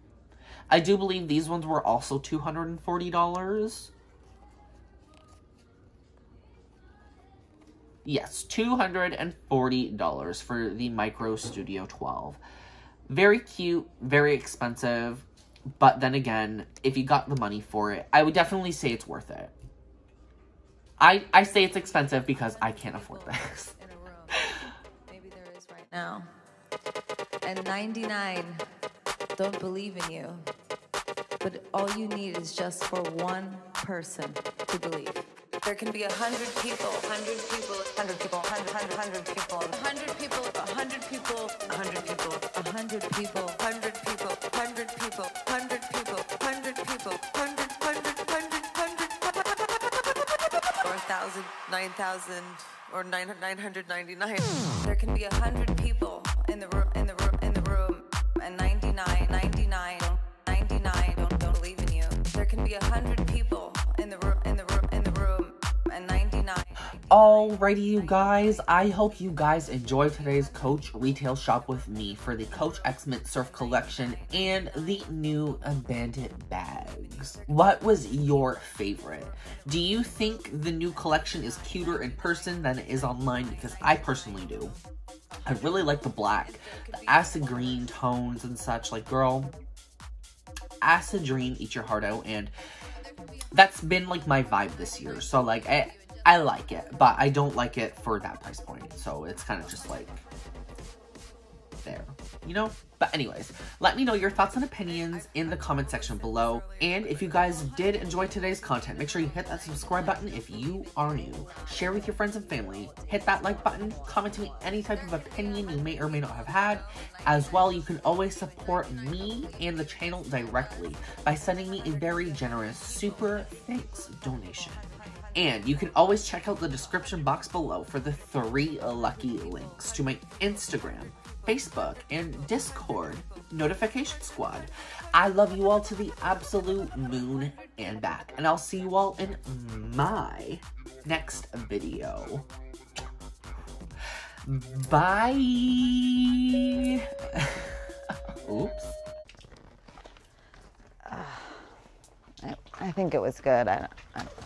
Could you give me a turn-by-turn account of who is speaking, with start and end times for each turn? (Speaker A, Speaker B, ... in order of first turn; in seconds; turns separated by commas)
Speaker A: 0.7-3.9, Speaker A: 8.0-12.4, Speaker A: 13.1-15.3, Speaker A: 15.8-19.5, Speaker A: 21.0-23.7, Speaker B: 21.7-26.3, Speaker B: 27.4-28.6, Speaker B: 29.4-30.4, Speaker B: 31.4-49.8, Speaker B: 50.8-67.0, Speaker A: 67.1-84.7, Speaker B: 67.7-68.3, Speaker A: 85.5-89.5, Speaker B: 86.8-87.5, Speaker A: 90.8-92.5, Speaker A: 93.5-100.2, Speaker A: 101.8-124.8, Speaker A: 125.3-142.5, Speaker A: 144.4-147.7, Speaker A: 148.4-149.0, Speaker C: 151.1-151.5, Speaker C: 152.4-154.3